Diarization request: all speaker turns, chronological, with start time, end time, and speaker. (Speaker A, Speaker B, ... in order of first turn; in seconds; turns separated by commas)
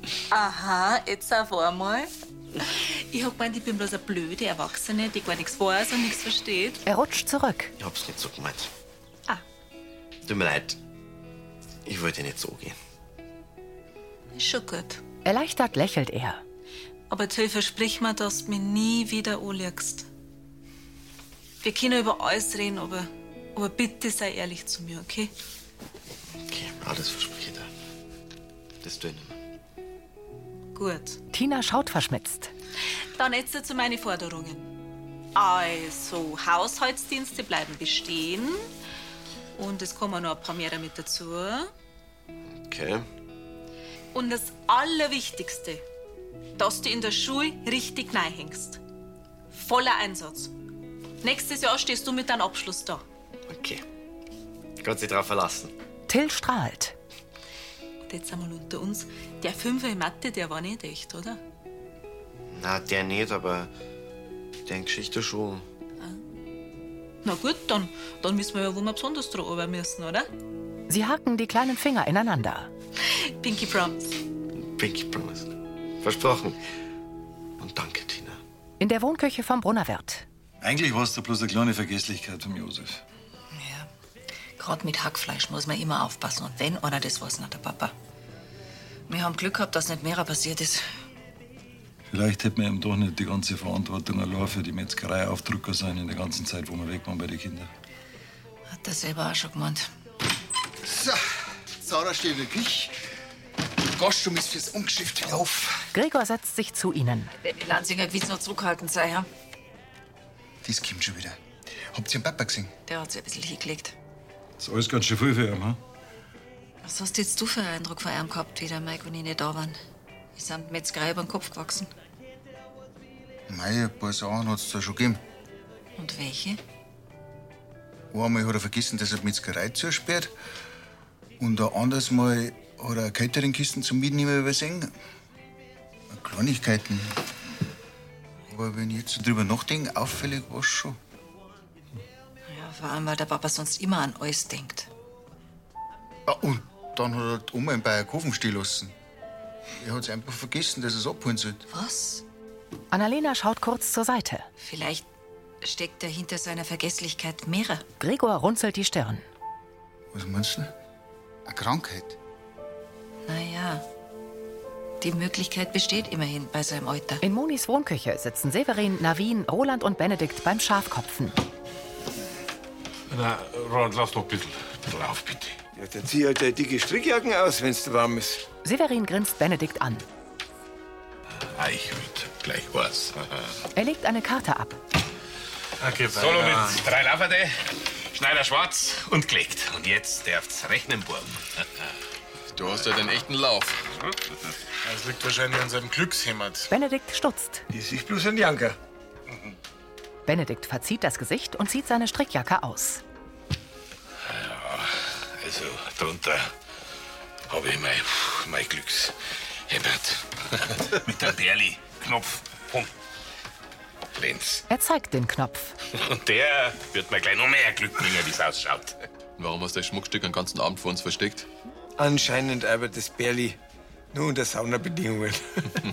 Speaker A: 0.3-2.1, Speaker A: 2.6-6.8, Speaker B: 6.8-7.7, Speaker C: 7.8-8.7, Speaker C: 10.3-10.8, Speaker C: 11.9-12.8, Speaker A: 14.3-15.0, Speaker B: 15.2-16.4, Speaker A: 17.1-20.1, Speaker A: 21.6-25.3, Speaker C: 26.4-27.7, Speaker C: 28.8-29.4, Speaker A: 30.8-31.2, Speaker B: 31.3-32.5, Speaker A: 33.2-34.7, Speaker A: 35.4-38.6, Speaker A: 39.6-41.7, Speaker C: 42.6-43.1, Speaker A: 44.1-45.8, Speaker A: 46.6-48.8, Speaker A: 49.5-50.5, Speaker A: 51.2-53.0, Speaker C: 53.5-53.8, Speaker C: 54.8-55.7, Speaker B: 56.1-57.0, Speaker A: 58.1-61.4, Speaker C: 62.5-63.7, Speaker C: 64.7-65.7, Speaker A: 67.2-70.3, Speaker B: 70.9-72.7, Speaker A: 73.4-74.0, Speaker C: 74.7-76.6, Speaker C: 77.6-78.4, Speaker B: 78.8-80.2, Speaker D: 80.6-83.0, Speaker E: 83.5-83.9, Speaker E: 84.6-87.9, Speaker E: 89.1-90.8, Speaker D: 92.1-97.7, Speaker E: 98.7-99.9, Speaker F: 100.8-101.2, Speaker F: 101.8-103.0, Speaker F: 103.9-105.8, Speaker B: 105.9-107.3, Speaker E: 107.4-109.3, Speaker F: 110.6-111.4, Speaker F: 111.9-112.7, Speaker E: 112.9-113.9, Speaker D: 114.6-115.8, Speaker E: 116.8-119.8, Speaker E: 120.3-121.9, Speaker F: 123.5-125.2, Speaker E: 126.0-126.6, Speaker F: 128.1-130.3, Speaker F: 131.4-134.9, Speaker F: 136.1-137.2, Speaker F: 138.5-141.0, Speaker E: 142.5-144.9, Speaker F: 146.3-148.9, Speaker F: 149.8-151.6, Speaker E: 151.7-152.2, Speaker B: 152.9-154.5, Speaker E: 154.6-155.1, Speaker E: 155.6-157.8, Speaker B: 158.0-159.2, Speaker F: 160.1-160.7, Speaker F: 161.5-162.2, Speaker E: 163.3-163.8, Speaker E: 165.0-167.2, Speaker B: 167.2-171.4, Speaker G: 173.1-175.6, Speaker H: 175.8-178.4, Speaker B: 178.6-180.1, Speaker G: 181.3-183.6, Speaker B: 183.8-184.8, Speaker I: 185.8-186.8, Speaker G: 186.1-187.6, Speaker G: 188.1-191.4, Speaker J: 192.5-193.8, Speaker I: 194.8-196.7, Speaker B: 196.7-197.6, Speaker H: 197.7-198.8, Speaker B: 200.3-203.0, Speaker G: 204.2-206.5, Speaker G: 207.5-209.1, Speaker G: 209.7-212.9, Speaker G: 214.1-214.6, Speaker B: 214.7-215.8, Speaker G: 215.9-219.0, Speaker J: 219.4-221.5, Speaker H: 222.0-223.6, Speaker H: 224.1-225.8